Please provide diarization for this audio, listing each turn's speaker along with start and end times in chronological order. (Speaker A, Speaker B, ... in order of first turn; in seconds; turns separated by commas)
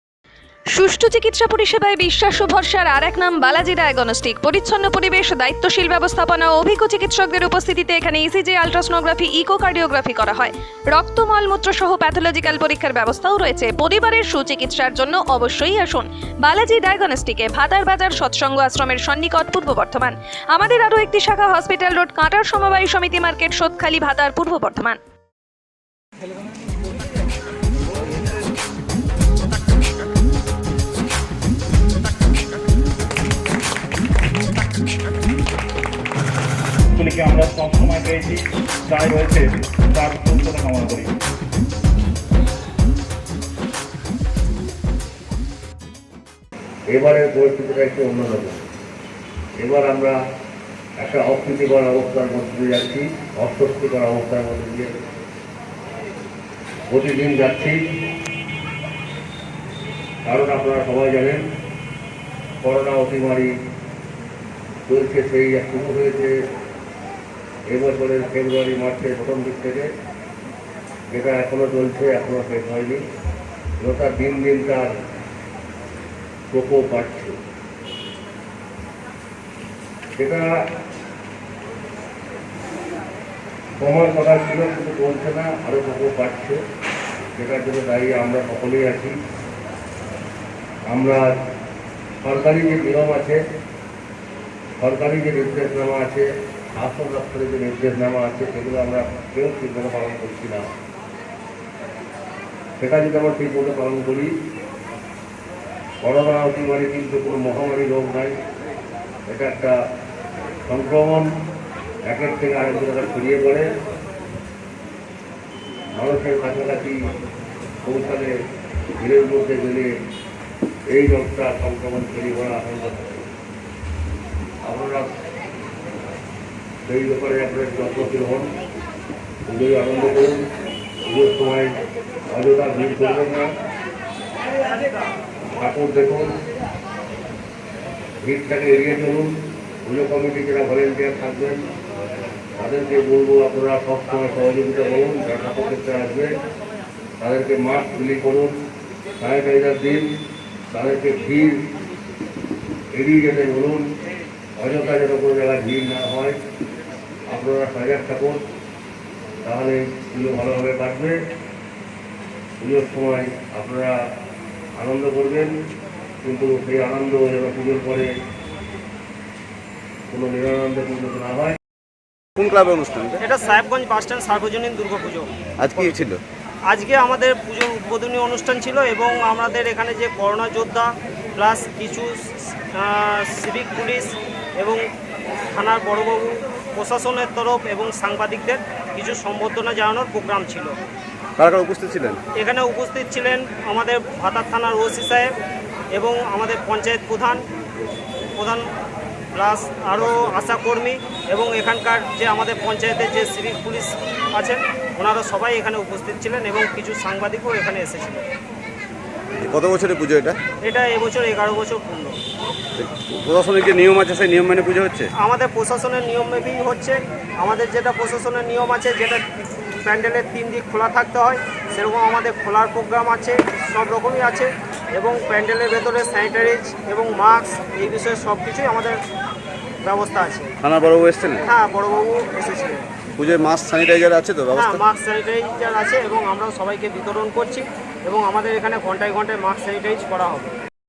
Speaker A: 0.7-25.0, Speaker B: 37.0-41.1, Speaker C: 46.9-48.6, Speaker C: 49.6-50.1, Speaker C: 51.0-54.9, Speaker C: 56.9-57.8, Speaker C: 60.2-61.4, Speaker C: 62.6-63.5, Speaker C: 64.9-66.3, Speaker C: 67.7-69.9, Speaker C: 71.1-73.0, Speaker C: 73.8-74.9, Speaker C: 76.5-77.3, Speaker C: 80.2-80.5, Speaker C: 83.8-86.6, Speaker C: 87.3-89.1, Speaker C: 90.9-91.2, Speaker C: 92.2-93.4, Speaker C: 94.8-100.7, Speaker C: 102.8-104.3, Speaker C: 106.0-108.4, Speaker C: 109.3-109.7, Speaker C: 110.7-111.3, Speaker C: 112.0-113.7, Speaker C: 116.0-117.0, Speaker C: 117.8-118.3, Speaker C: 119.0-119.9, Speaker C: 120.9-123.2, Speaker C: 124.6-125.1, Speaker C: 126.8-128.5, Speaker C: 129.5-130.4, Speaker C: 131.1-131.7, Speaker C: 132.3-133.5, Speaker C: 135.5-136.3, Speaker C: 138.2-139.3, Speaker C: 139.8-141.6, Speaker C: 142.6-146.3, Speaker C: 147.2-148.5, Speaker C: 149.2-150.1, Speaker C: 150.7-151.6, Speaker C: 152.9-153.8, Speaker C: 154.6-156.3, Speaker C: 157.3-158.4, Speaker C: 159.4-161.2, Speaker C: 162.6-163.9, Speaker C: 164.8-165.5, Speaker C: 166.2-168.1, Speaker C: 170.1-171.6, Speaker D: 172.4-173.2, Speaker E: 173.2-176.0, Speaker D: 175.6-176.2, Speaker E: 176.7-184.8, Speaker E: 185.5-190.8, Speaker D: 191.4-192.2, Speaker E: 192.4-195.3, Speaker E: 195.9-197.4, Speaker E: 198.4-198.6, Speaker E: 199.3-208.2, Speaker D: 209.4-210.4, Speaker E: 210.6-212.2, Speaker D: 212.8-215.1, Speaker E: 215.2-219.2, Speaker E: 219.8-229.0, Speaker E: 229.8-230.5, Speaker D: 230.6-231.4, Speaker E: 231.4-232.8, Speaker D: 233.2-234.8, Speaker E: 234.5-240.6